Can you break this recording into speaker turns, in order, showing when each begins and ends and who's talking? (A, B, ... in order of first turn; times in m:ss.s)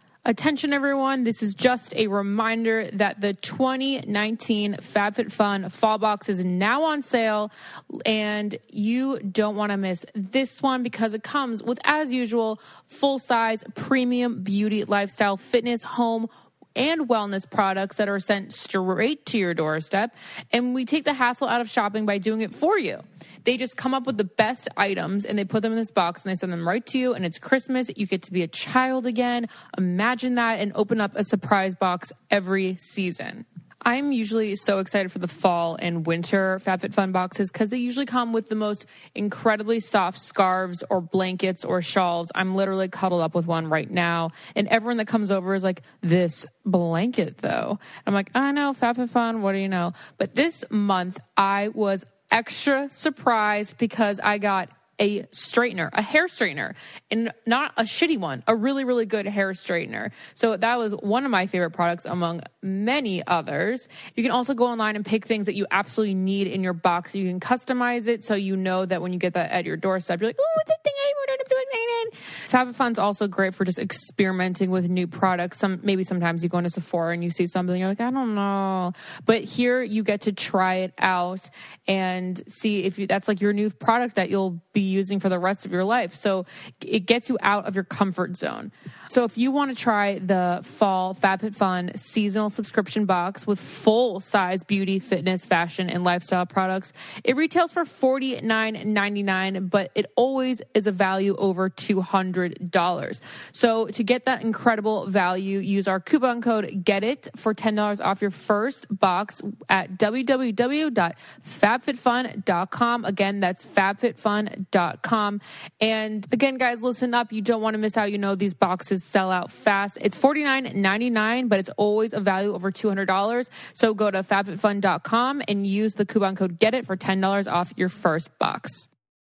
0:00.2-2:08.9 A